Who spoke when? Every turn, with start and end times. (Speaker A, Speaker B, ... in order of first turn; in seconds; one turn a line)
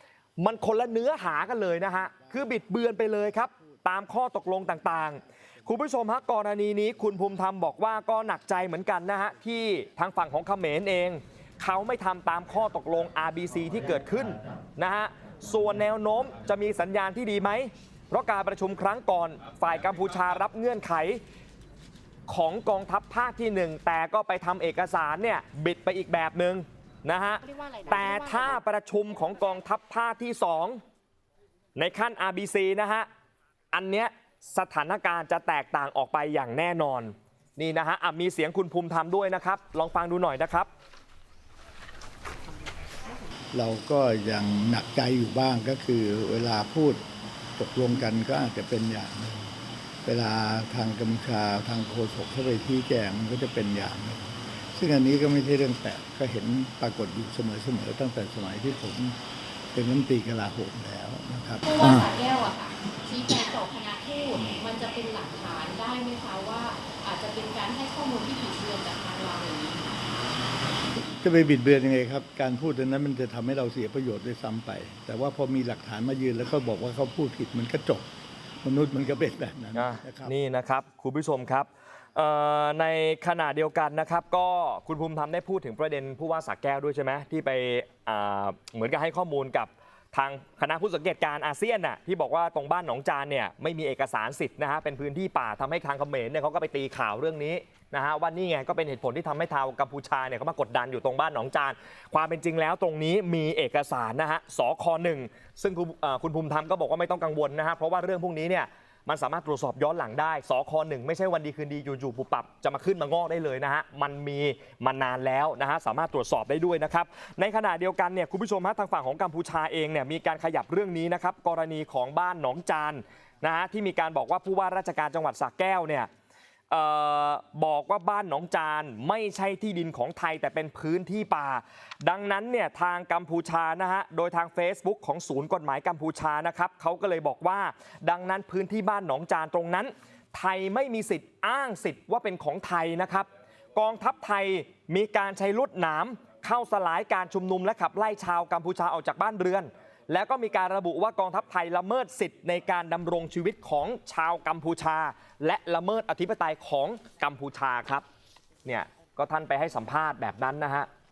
Speaker A: 0.4-21.2
Speaker A: 22.3-30.8
Speaker B: 27.5-28.2
Speaker A: 31.8-33.1
Speaker A: 33.7-40.7
Speaker C: 43.5-47.0
Speaker C: 47.6-59.2
Speaker C: 59.7-62.1
Speaker B: 61.6-70.0
Speaker C: 71.0-78.1
Speaker C: 78.6-80.3
Speaker A: 79.7-126.1
Speaker A: 126.7-158.1
Speaker A: 158.7-160.9